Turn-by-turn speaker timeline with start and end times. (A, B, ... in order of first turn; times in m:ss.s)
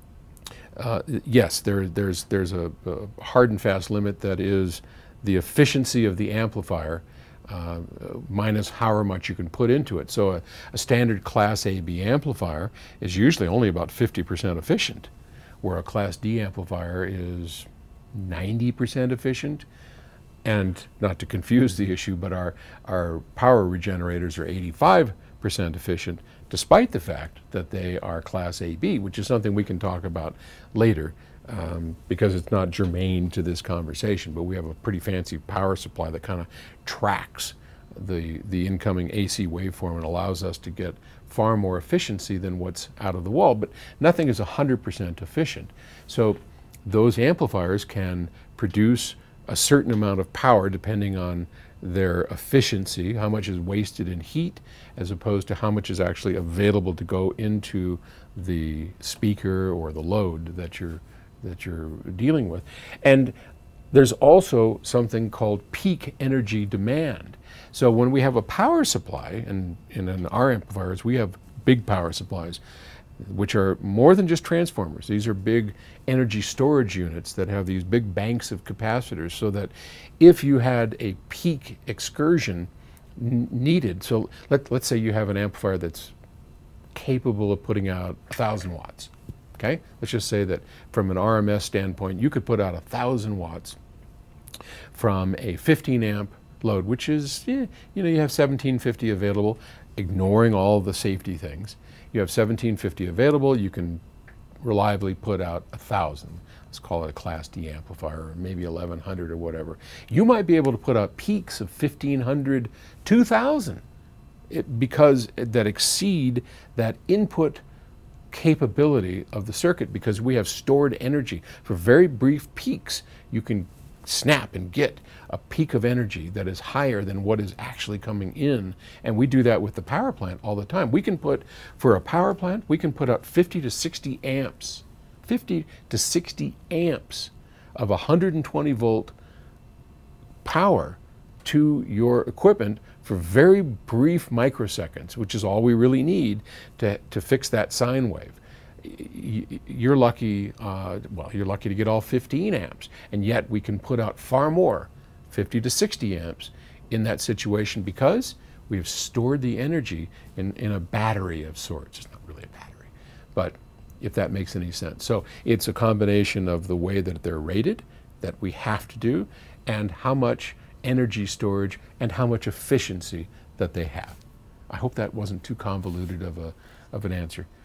0:00.7-0:15.1 A
0:15.6-0:19.6 A
0:20.4-1:03.4 A
1:03.9-1:12.6 A
1:13.2-1:26.1 A
1:26.9-1:33.8 A
1:34.9-1:44.0 A
1:44.6-1:53.8 A
1:54.5-1:57.6 A
1:58.3-2:19.1 A
2:20.4-2:57.5 A